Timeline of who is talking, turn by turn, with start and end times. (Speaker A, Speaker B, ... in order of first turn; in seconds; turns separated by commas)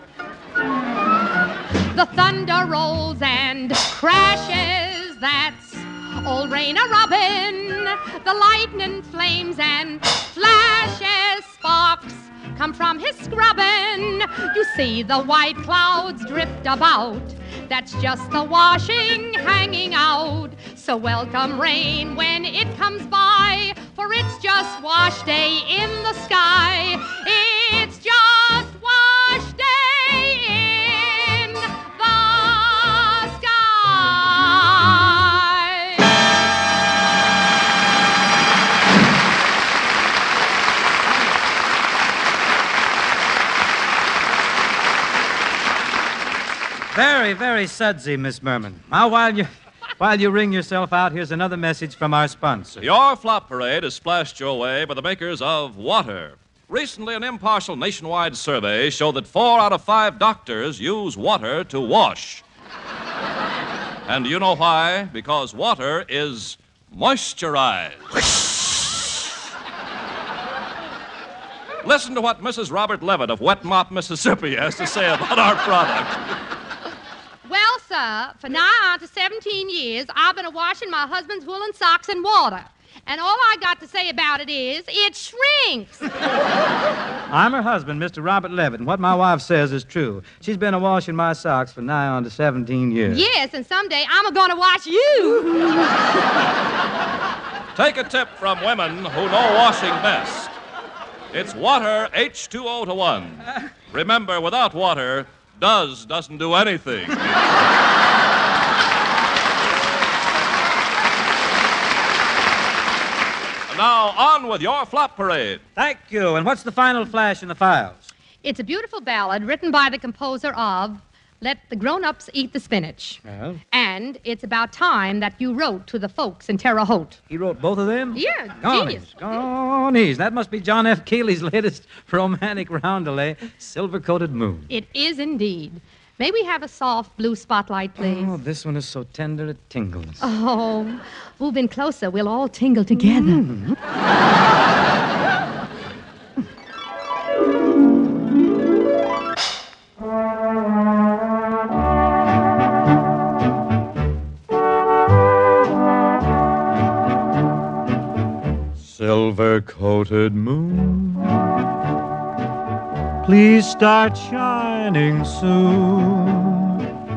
Speaker A: 1.9-36.1, Speaker B: 46.9-52.9, Speaker C: 52.8-62.4, Speaker C: 64.1-68.2, Speaker C: 71.8-76.2, Speaker A: 77.5-86.1, Speaker B: 87.3-93.3, Speaker A: 93.1-95.9, Speaker C: 97.8-100.5, Speaker C: 101.3-107.4, Speaker C: 113.7-115.6, Speaker B: 115.8-118.1, Speaker A: 118.4-123.2, Speaker A: 123.7-127.2, Speaker B: 127.3-134.7, Speaker A: 128.2-129.1, Speaker A: 134.7-138.3, Speaker B: 138.0-140.2, Speaker A: 140.2-143.4, Speaker B: 143.0-143.8, Speaker B: 158.8-161.5, Speaker B: 163.2-166.9